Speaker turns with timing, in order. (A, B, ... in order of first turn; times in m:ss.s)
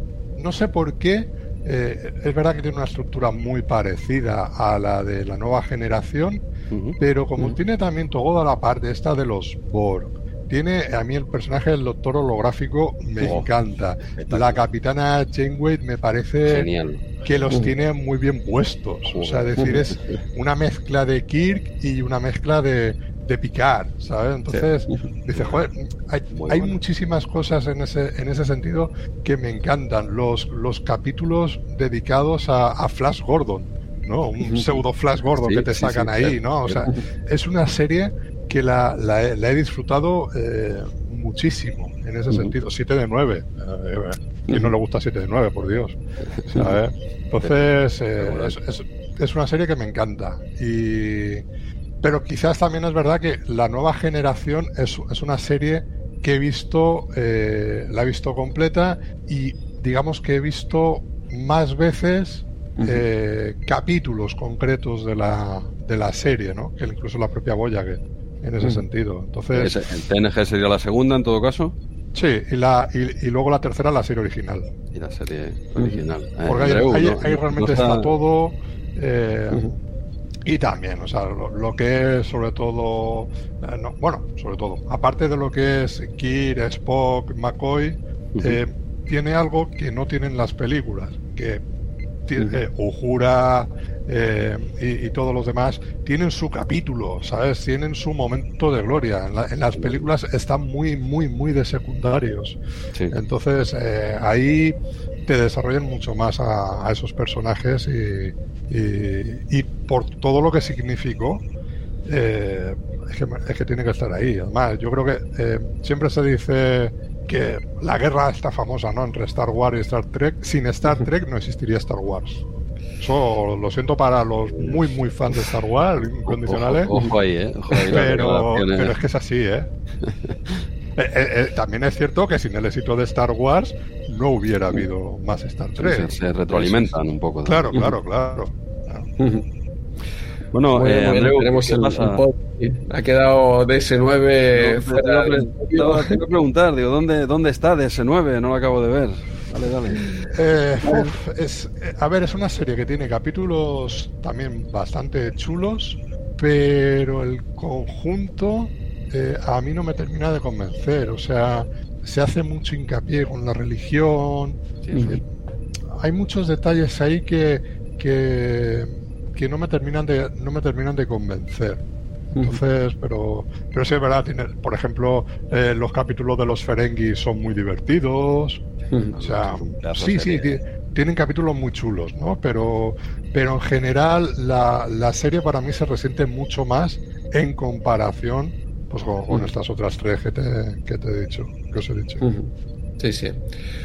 0:00.3-0:06.4 A
0:06.7-0:07.6 B
0:07.0-0:16.7 A
0:13.2-0:13.5 B
0:14.1-0:14.6 B
0:16.4-0:17.2 B
0:17.2-0:51.4 A
0:19.1-0:20.2 B
0:24.5-0:25.0 C
0:26.3-0:26.8 B
0:34.4-0:34.7 C
0:35.4-0:36.8 B
0:48.2-0:48.5 B
0:52.0-1:09.7 A
1:02.8-1:03.0 C
1:09.5-1:11.7 B
1:12.1-1:14.7 A
1:14.9-1:18.1 B
1:16.4-1:19.7 A
1:20.4-1:31.6 A
1:28.3-1:28.6 B
1:32.3-1:42.6 A
1:39.7-1:40.0 B
1:43.1-1:51.4 A
1:52.0-2:02.4 A
2:03.0-2:06.9 A
2:04.5-2:04.8 B
2:06.3-2:08.9 B
2:07.9-2:09.7 A
2:10.0-2:10.6 B
2:11.0-2:16.9 A
2:15.8-2:17.8 B
2:17.4-2:19.1 A
2:19.2-2:19.4 C
2:20.5-2:22.2 B
2:20.8-2:26.2 C
2:24.5-2:30.1 B
2:30.3-2:45.2 A
2:44.8-2:45.2 B
2:45.9-2:51.8 A
2:52.3-2:58.6 A
2:52.3-2:52.6 C
2:59.1-3:00.5 B
2:59.2-3:12.2 A
3:12.2-3:13.4 C